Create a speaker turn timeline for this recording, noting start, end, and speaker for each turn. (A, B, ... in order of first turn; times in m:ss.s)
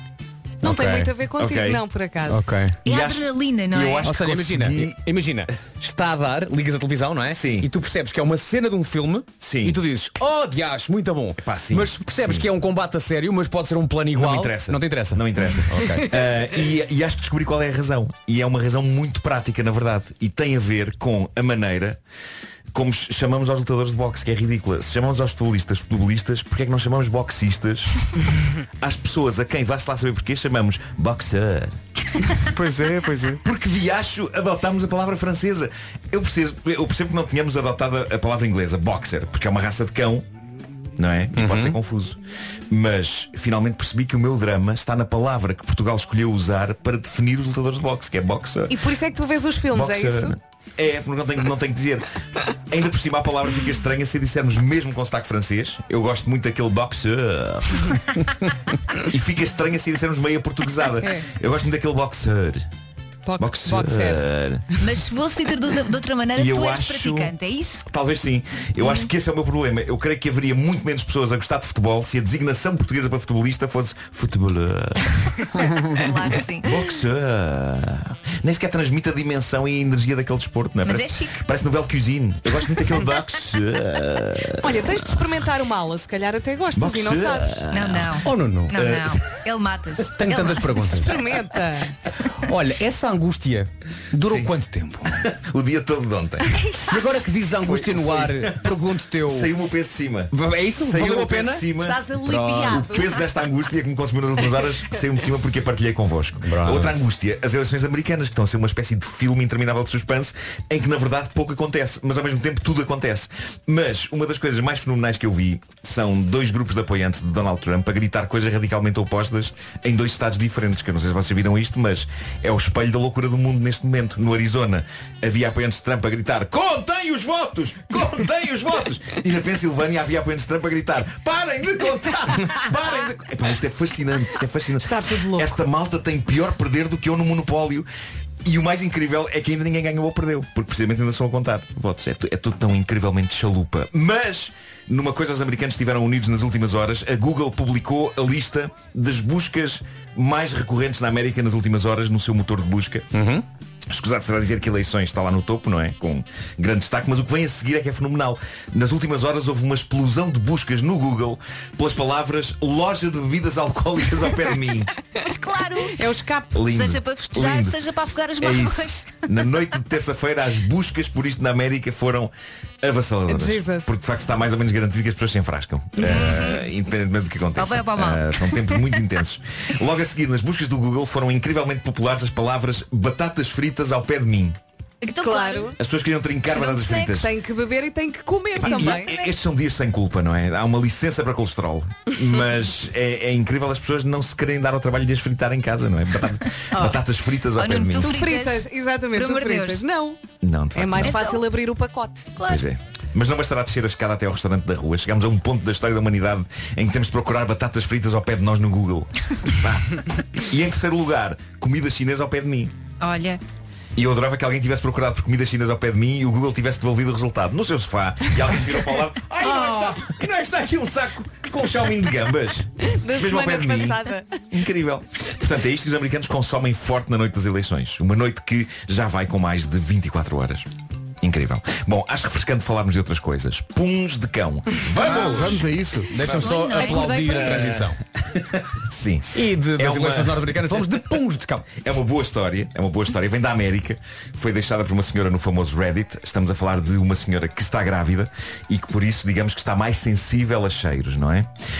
0:00.6-0:02.4 A
0:00.6-0:01.1 B
0:01.4-0:01.8 C
0:02.3-0:02.8 B
0:02.8-0:04.1 D
0:02.8-0:05.0 C
0:04.0-0:16.1 B
0:07.3-0:07.7 C
0:09.4-0:09.8 C
0:11.4-0:12.5 C
0:14.1-0:22.0 C
0:22.7-0:27.9 C
0:28.8-0:31.8 C
0:32.5-0:33.4 E
0:33.4-0:40.3 C
0:41.0-0:48.8 C
0:41.4-0:41.8 B
0:48.7-0:50.4 A
0:49.7-0:52.0 C
0:52.7-0:58.0 C
0:59.0-1:02.7 C
1:01.0-1:01.3 A
1:03.3-1:04.2 A
1:03.4-1:04.6 C
1:04.8-1:07.8 D
1:06.4-1:07.4 C
1:07.9-1:15.4 C
1:08.8-1:09.1 D
1:16.0-1:16.7 D
1:16.2-1:24.8 C
1:20.8-1:21.4 D
1:24.6-1:27.6 A
1:26.8-1:29.4 C
1:27.7-1:30.8 D
1:28.2-1:28.7 B
1:30.1-1:31.2 B
1:30.9-1:32.0 A
1:32.4-1:35.2 B
1:34.2-1:34.5 C
1:35.1-1:36.6 C
1:36.6-1:36.9 A
1:36.9-1:39.5 B
1:37.6-1:38.7 C
1:39.2-1:42.0 C
1:40.3-1:42.9 B
1:41.8-1:43.2 A
1:42.6-2:17.9 C
1:46.4-1:47.0 B
2:14.8-2:15.6 A
2:18.4-2:33.1 C
2:33.1-2:33.4 B
2:33.9-2:44.9 C
2:45.2-2:46.0 D
2:45.9-2:46.6 A
2:46.5-2:47.8 C
2:46.7-2:49.2 D
2:48.4-3:04.6 C
2:53.3-2:53.9 A
2:56.0-2:56.6 D
2:57.6-2:58.9 D
3:05.0-3:05.8 D
3:05.2-3:05.8 A
3:05.8-3:07.3 C
3:06.6-3:09.1 A
3:08.6-3:18.2 C
3:08.7-3:09.1 D
3:17.6-3:19.9 D
3:18.0-3:20.2 A
3:20.4-3:21.3 C
3:20.7-3:22.3 A
3:21.0-3:21.4 D
3:22.4-3:22.6 D
3:22.4-3:32.7 C
3:33.0-3:33.4 D
3:34.0-3:50.7 C
3:42.8-3:44.4 A
3:51.2-3:55.6 C
3:54.9-3:58.0 B
3:55.0-3:56.2 E
3:56.2-3:57.0 D
3:56.3-3:56.5 C
3:56.8-3:57.8 A
3:57.2-4:01.0 C
3:59.3-4:01.7 B
4:01.8-4:11.5 C